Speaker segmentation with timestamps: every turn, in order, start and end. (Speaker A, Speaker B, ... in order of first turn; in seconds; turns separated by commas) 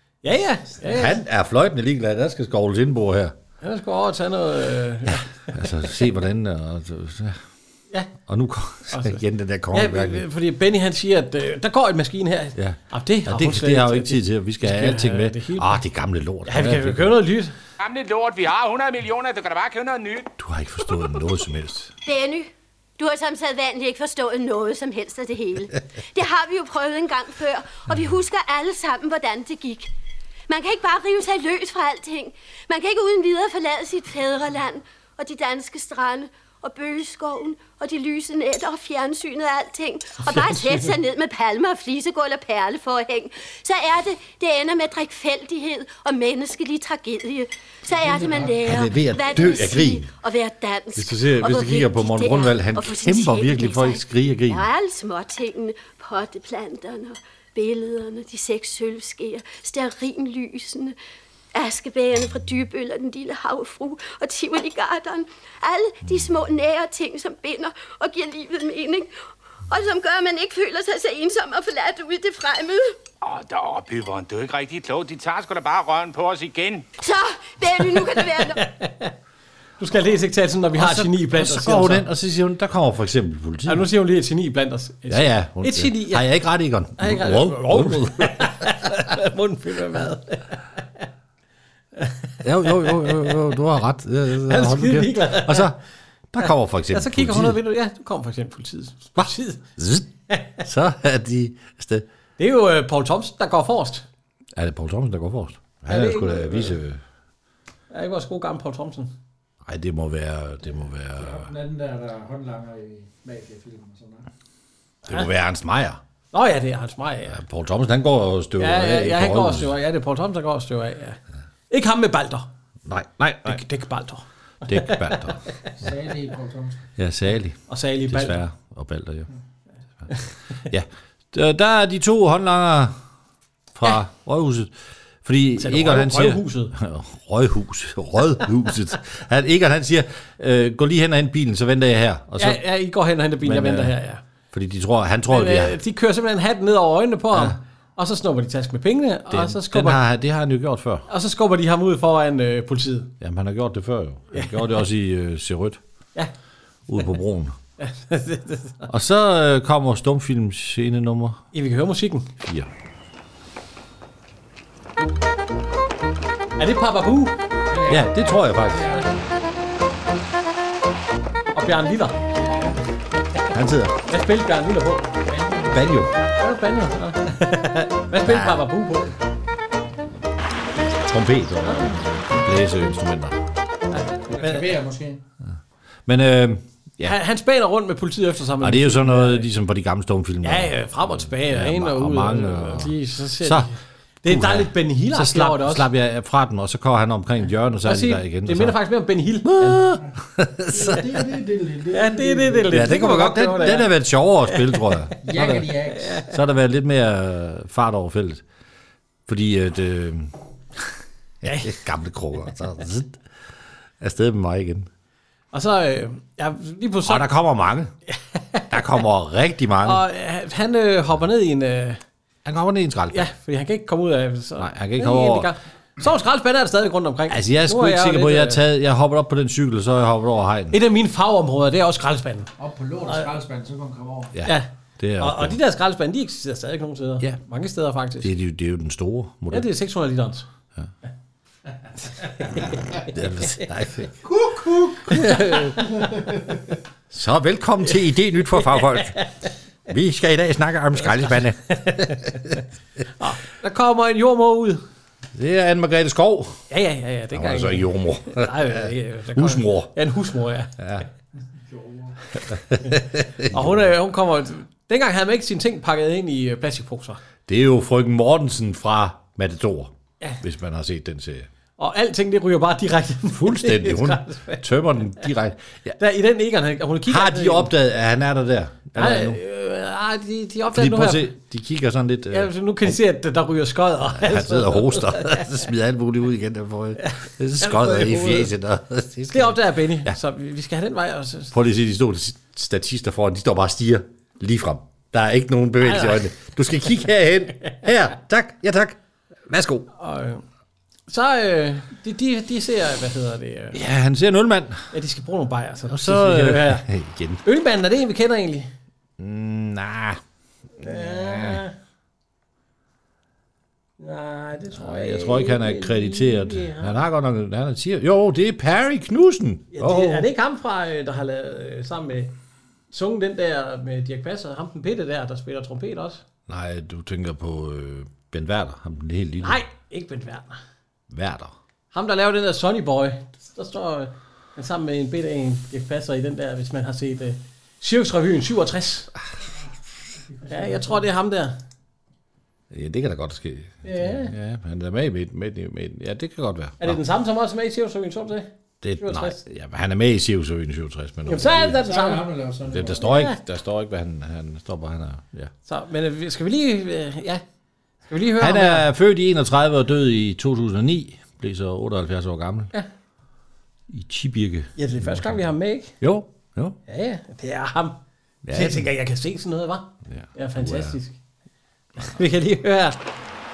Speaker A: 0.2-1.2, Speaker B: 0.8-3.4, Speaker A: 3.6-5.6, Speaker B: 5.1-7.4, Speaker B: 8.3-10.2, Speaker A: 8.9-9.2, Speaker A: 9.7-15.8, Speaker B: 12.6-17.2, Speaker A: 16.4-17.5, Speaker C: 17.8-20.3, Speaker B: 20.4-21.9, Speaker D: 22.0-29.9, Speaker D: 30.5-61.0, Speaker A: 40.3-40.8, Speaker E: 47.9-48.7, Speaker B: 48.6-50.1, Speaker B: 50.9-54.7, Speaker D: 61.5-69.1, Speaker D: 69.7-73.0, Speaker C: 73.2-76.8, Speaker D: 77.0-78.6, Speaker A: 78.4-79.1, Speaker A: 79.8-82.1, Speaker B: 80.7-83.8, Speaker A: 83.7-86.3, Speaker B: 85.1-88.7, Speaker A: 87.0-91.0, Speaker A: 92.0-93.3, Speaker B: 92.4-95.8, Speaker A: 94.4-95.7, Speaker B: 96.3-97.6, Speaker A: 96.9-99.6, Speaker B: 99.2-100.1, Speaker A: 100.3-100.6, Speaker B: 100.6-102.0, Speaker A: 102.4-104.0, Speaker B: 104.5-107.0, Speaker A: 105.9-106.8, Speaker A: 107.9-109.1, Speaker B: 109.6-111.5, Speaker E: 111.2-114.3, Speaker B: 115.1-116.0, Speaker A: 116.3-117.4, Speaker B: 117.3-119.7, Speaker A: 118.6-121.2, Speaker A: 121.7-122.5, Speaker B: 122.8-123.6, Speaker A: 123.5-125.4, Speaker B: 124.7-125.4, Speaker E: 125.8-126.8, Speaker B: 127.0-129.3, Speaker A: 127.7-128.4, Speaker B: 130.7-133.0, Speaker B: 133.7-134.7, Speaker B: 135.2-142.6, Speaker A: 135.6-136.7, Speaker A: 142.4-144.2, Speaker B: 143.4-143.9, Speaker B: 144.5-145.8, Speaker A: 145.3-150.0, Speaker B: 149.3-151.1, Speaker A: 151.1-153.1, Speaker B: 153.2-155.8, Speaker A: 154.3-154.8, Speaker B: 156.9-157.6, Speaker A: 157.8-158.9, Speaker B: 158.9-161.4, Speaker A: 161.5-162.3, Speaker B: 162.4-162.7, Speaker A: 166.6-167.4, Speaker E: 167.7-169.1, Speaker B: 167.9-168.9, Speaker A: 171.5-172.3, Speaker B: 173.5-174.0, Speaker A: 174.1-175.2, Speaker E: 175.2-175.9, Speaker B: 175.7-176.1, Speaker A: 176.4-179.2, Speaker B: 178.2-178.6, Speaker B: 181.1-183.4, Speaker A: 181.6-182.0, Speaker A: 183.9-184.7, Speaker E: 184.3-185.2, Speaker B: 186.1-187.2, Speaker A: 187.0-189.5, Speaker B: 188.6-193.7, Speaker A: 190.4-195.9, Speaker B: 194.2-198.8, Speaker A: 197.8-199.9, Speaker B: 199.4-201.2, Speaker E: 200.7-203.0, Speaker A: 201.9-203.9, Speaker B: 202.7-205.7, Speaker A: 204.5-206.3, Speaker E: 205.2-206.2, Speaker B: 206.2-208.4, Speaker B: 209.3-210.9, Speaker B: 211.4-213.2, Speaker A: 211.4-211.8, Speaker B: 214.0-214.9, Speaker A: 215.5-217.3, Speaker B: 217.0-217.9, Speaker A: 218.1-218.8, Speaker B: 218.7-220.0, Speaker A: 219.8-222.0, Speaker B: 222.4-223.3, Speaker A: 223.1-228.6, Speaker B: 224.6-225.5, Speaker B: 227.3-230.8, Speaker A: 230.7-232.5, Speaker E: 232.6-234.3, Speaker B: 234.3-235.6, Speaker A: 234.4-238.3, Speaker B: 238.2-239.7, Speaker A: 239.5-240.4, Speaker A: 242.2-243.6, Speaker B: 242.9-244.2, Speaker E: 244.2-245.2, Speaker B: 245.0-245.8, Speaker A: 245.1-245.9, Speaker E: 245.8-246.3, Speaker B: 247.1-249.2, Speaker A: 248.6-249.3, Speaker B: 249.9-252.3, Speaker A: 251.7-252.6, Speaker A: 253.2-254.8, Speaker B: 255.3-256.6, Speaker A: 256.7-261.0, Speaker B: 257.3-259.9, Speaker B: 260.8-261.0, Speaker E: 261.7-262.1, Speaker B: 262.6-263.8, Speaker A: 262.8-267.2, Speaker B: 267.5-271.5, Speaker A: 271.8-274.6, Speaker B: 273.3-276.0, Speaker A: 276.0-277.7, Speaker B: 277.1-279.4, Speaker A: 278.9-281.3, Speaker B: 280.7-282.9, Speaker A: 282.3-285.5, Speaker B: 284.1-290.1, Speaker A: 287.0-288.5, Speaker A: 289.3-291.5, Speaker B: 291.5-299.9, Speaker A: 295.8-296.3, Speaker A: 299.9-300.4, Speaker A: 301.1-303.8, Speaker B: 303.7-304.9, Speaker A: 304.9-306.9, Speaker B: 305.9-307.4, Speaker A: 307.4-308.7, Speaker B: 309.2-310.2, Speaker A: 310.8-311.7, Speaker B: 310.8-311.6, Speaker A: 314.0-317.0, Speaker B: 314.7-320.3, Speaker A: 319.7-322.3, Speaker A: 322.9-326.2, Speaker B: 326.5-329.6, Speaker A: 329.4-330.6, Speaker B: 331.1-331.5, Speaker A: 331.9-339.1, Speaker E: 340.3-341.0, Speaker A: 340.5-341.6, Speaker B: 342.7-347.0, Speaker A: 343.8-344.3, Speaker A: 346.8-349.4, Speaker B: 348.8-351.8, Speaker A: 351.3-352.3, Speaker E: 351.8-353.1, Speaker B: 352.7-355.5, Speaker A: 352.9-353.4, Speaker A: 355.6-357.4, Speaker A: 358.1-358.9, Speaker B: 358.4-362.7, Speaker B: 363.9-365.4, Speaker A: 364.8-366.0, Speaker B: 366.0-366.8, Speaker A: 366.9-371.2, Speaker B: 368.4-368.9, Speaker B: 370.1-371.0, Speaker A: 372.0-373.0